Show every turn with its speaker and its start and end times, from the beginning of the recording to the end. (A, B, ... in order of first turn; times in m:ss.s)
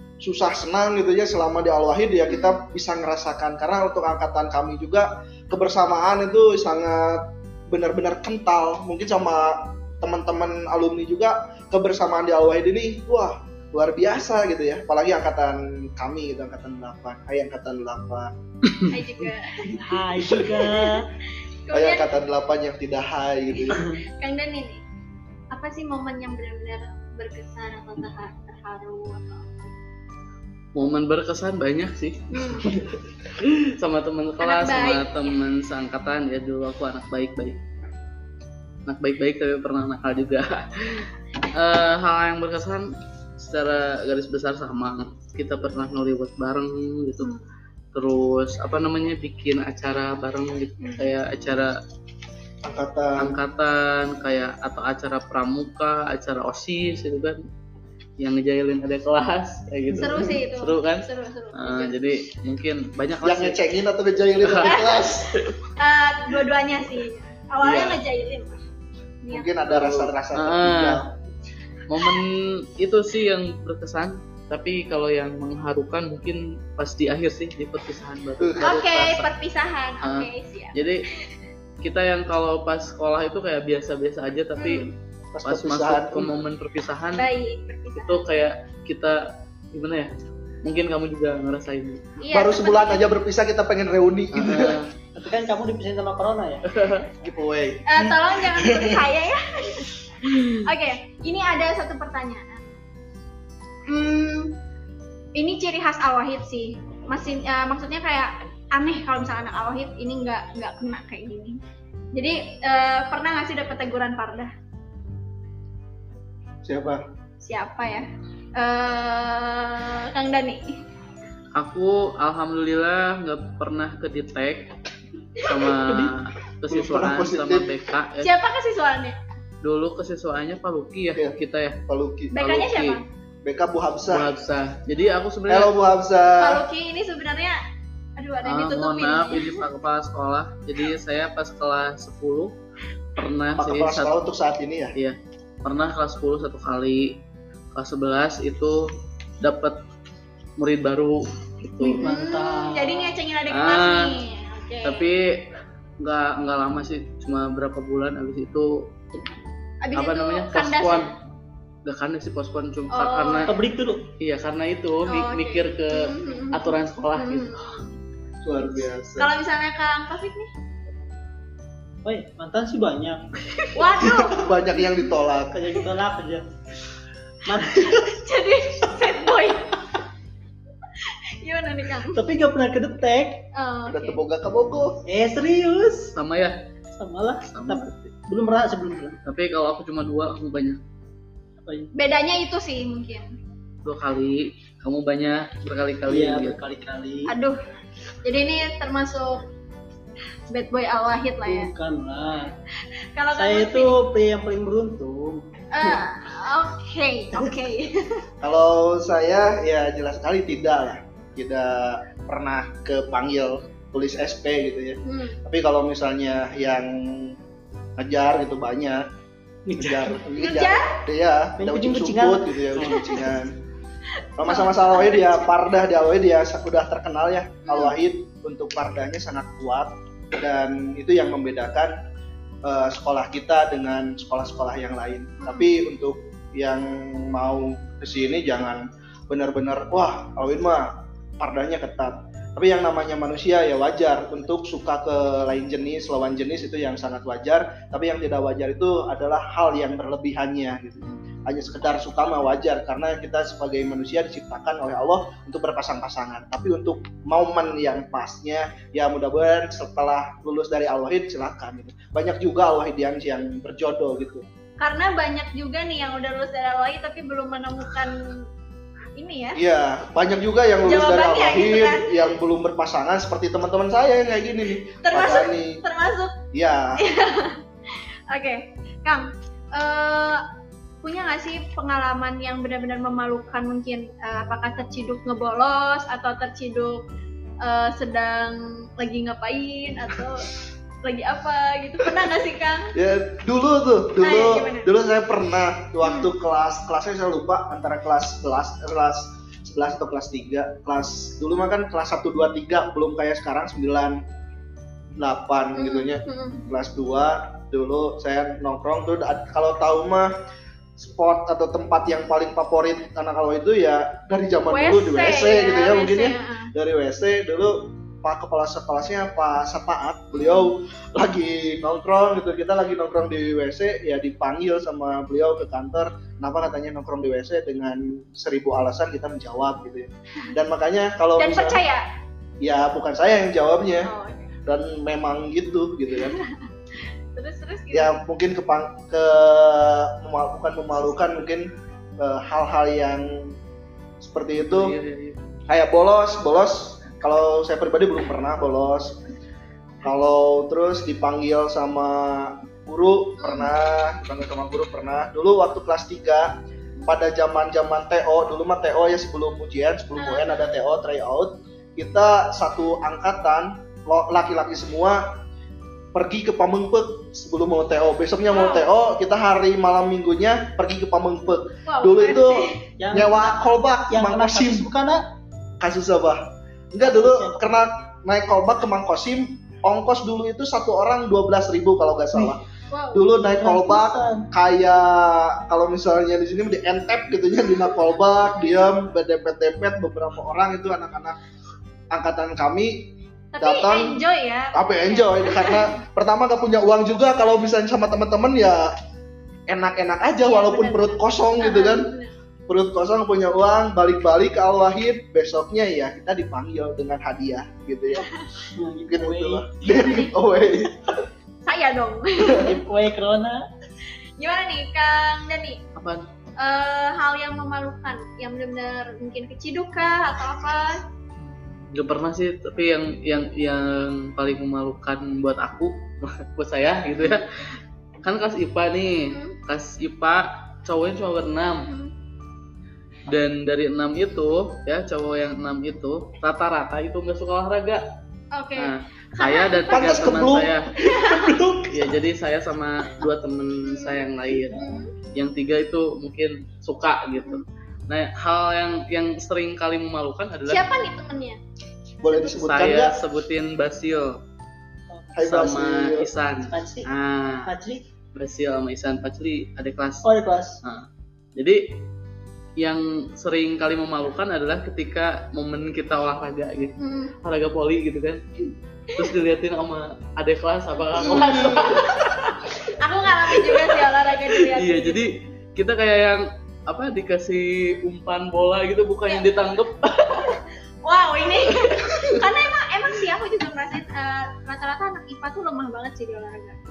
0:00.2-0:18.3 A
0:02.3-0:02.6 B
0:18.9-0:19.8 B
0:19.7-0:21.1 C
0:20.3-0:21.0 B
0:21.6-0:22.1 B
0:21.7-0:23.8 A
0:23.5-0:24.8 B
0:25.5-0:29.7 B
0:30.7-0:37.6 D
0:32.3-0:32.7 B
0:34.4-0:35.3 B
0:38.8-0:47.3 D
0:47.2-0:47.5 B
0:47.9-0:51.7 D
0:50.8-0:51.1 B
0:52.6-0:53.4 A
0:53.2-0:57.4 D
0:58.2-1:03.6 D
1:00.0-1:02.0 B
1:03.2-1:05.3 A
1:04.4-1:04.8 D
1:04.6-1:05.2 B
1:05.8-1:08.6 B
1:07.6-1:08.0 D
1:09.2-1:09.6 B
1:09.3-1:11.1 A
1:09.7-1:11.0 D
1:11.9-1:19.2 D
1:18.4-1:18.7 A
1:18.6-1:21.2 B
1:20.0-1:21.0 D
1:21.8-1:24.9 D
1:24.6-1:24.9 B
1:25.3-1:26.3 A
1:25.4-1:27.2 D
1:27.2-1:28.3 B
1:28.0-1:30.1 D
1:30.6-1:32.1 D
1:32.2-1:33.1 B
1:32.3-1:34.8 A
1:34.3-1:34.9 D
1:35.1-1:36.6 C
1:36.7-1:37.1 D
1:37.2-1:37.8 A
1:37.8-1:39.9 B
1:40.5-1:42.7 B
1:43.9-1:44.6 B
1:45.3-1:51.6 B
1:52.1-1:54.5 B
1:56.6-1:57.0 A
1:57.4-2:00.7 B
2:01.5-2:04.7 D
2:05.4-2:08.3 D
2:06.7-2:07.7 A
2:08.2-2:09.2 B
2:09.6-2:11.8 D
2:11.9-2:12.3 A
2:12.3-2:13.0 B
2:12.3-2:13.0 D
2:13.4-2:14.3 A
2:14.1-2:15.7 D
2:15.5-2:16.6 A
2:16.4-2:17.6 B
2:18.2-2:19.6 B
2:18.4-2:22.5 D
2:23.2-2:24.1 D
2:23.6-2:24.9 A
2:25.0-2:27.2 D
2:27.7-2:28.9 D
2:29.4-2:29.8 D
2:30.6-2:32.0 D
2:31.8-2:33.2 C
2:32.0-2:35.1 B
2:33.5-2:34.2 D
2:34.8-2:35.5 D
2:36.0-2:39.2 D
2:39.8-2:41.1 B
2:40.0-2:41.1 D
2:41.8-2:43.5 D
2:42.9-2:43.5 B
2:43.4-2:44.1 C
2:44.2-2:47.6 D
2:45.0-2:47.8 B
2:48.4-2:49.3 A
2:48.6-2:50.5 B
2:52.0-2:54.2 C
2:53.7-2:54.5 B
2:54.3-2:55.6 A
2:55.5-2:56.5 C
2:57.4-2:58.1 C
2:57.7-2:59.8 B
3:01.0-3:02.2 B
3:02.1-3:03.5 C
3:03.5-3:04.2 B
3:03.9-3:05.0 A
3:05.1-3:06.1 C
3:06.1-3:06.6 D
3:06.9-3:09.2 C
3:07.5-3:08.0 D
3:09.2-3:10.8 D
3:11.6-3:11.9 C
3:11.9-3:13.3 B
3:13.8-3:16.6 D
3:16.1-3:17.3 C
3:17.3-3:17.6 B
3:18.2-3:19.4 B
3:20.5-3:21.7 B
3:21.4-3:22.5 C
3:23.2-3:24.0 B
3:23.3-3:25.4 C
3:25.7-3:28.2 B
3:28.4-3:37.4 A
3:35.0-3:35.4 B
3:38.0-3:39.0 A
3:39.7-3:40.2 C
3:39.7-3:43.5 A
3:40.4-3:41.0 B
3:41.6-3:42.7 C
3:42.9-3:43.2 B
3:44.4-3:51.9 A
3:44.4-3:45.5 B
3:47.6-3:47.9 B
3:52.6-4:24.4 A
3:55.4-3:55.7 B
4:24.8-4:28.4 B
4:29.2-4:29.6 B
4:29.6-4:35.8 A
4:30.8-4:32.1 B
4:35.0-4:36.4 B
4:36.5-4:37.0 A
4:37.0-4:40.4 B
4:41.0-4:47.0 B
4:47.6-4:50.5 B
4:51.0-4:52.9 B
4:52.9-5:04.2 A
4:54.2-4:54.9 B
5:05.2-5:10.3 A
5:05.8-5:06.6 B
5:11.0-5:31.8 A
5:14.7-5:16.7 B
5:20.3-5:20.7 B
5:31.4-5:32.0 B
5:32.6-5:34.1 A
5:34.0-5:34.5 B
5:34.6-5:36.4 A
5:37.3-5:38.2 B
5:37.9-5:43.5 A
5:44.2-5:45.0 A
5:44.5-5:45.4 D
5:45.7-5:49.2 A
5:50.0-5:56.5 A
5:53.4-5:53.7 B
5:57.1-6:05.2 A
6:00.2-6:00.5 B
6:06.1-6:14.9 A
6:08.5-6:08.9 B
6:11.9-6:12.8 B
6:13.0-6:15.2 C
6:15.8-6:31.4 A
6:17.0-6:17.9 C
6:22.9-6:23.2 B
6:23.6-6:24.5 C
6:32.1-6:34.2 A
6:33.5-6:36.0 B
6:34.7-6:38.9 A
6:39.7-6:42.1 A
6:40.4-6:42.3 B
6:42.7-6:48.3 A
6:48.7-6:49.7 C
6:49.0-6:51.2 A
6:49.8-6:50.3 B
6:51.6-6:52.7 B
6:52.5-6:53.6 C
6:54.4-6:55.8 B
6:55.9-6:56.2 D
6:56.6-7:01.0 B
7:01.9-7:07.5 D
7:08.2-7:11.9 D
7:09.3-7:09.6 B
7:11.8-7:12.1 B
7:13.3-7:18.0 D
7:18.5-7:20.4 B
7:18.8-7:20.9 D
7:19.9-7:20.8 A
7:21.0-7:22.1 C
7:21.0-7:21.5 B
7:21.9-7:31.0 D
7:23.8-7:24.2 B
7:24.7-7:25.1 B
7:30.7-7:31.6 B
7:32.2-7:33.2 A
7:32.3-7:34.4 D
7:35.4-7:36.3 A
7:35.4-7:37.7 D
7:36.7-7:37.0 C
7:37.6-7:38.0 C
7:38.3-7:40.3 D
7:40.2-7:40.8 C
7:40.8-7:41.8 D
7:42.8-7:48.4 D
7:47.0-7:47.3 B
7:49.2-7:52.8 D
7:51.2-7:52.0 B
7:52.9-7:55.2 B
7:53.5-8:00.6 D
8:01.0-8:06.8 B
8:01.8-8:02.2 D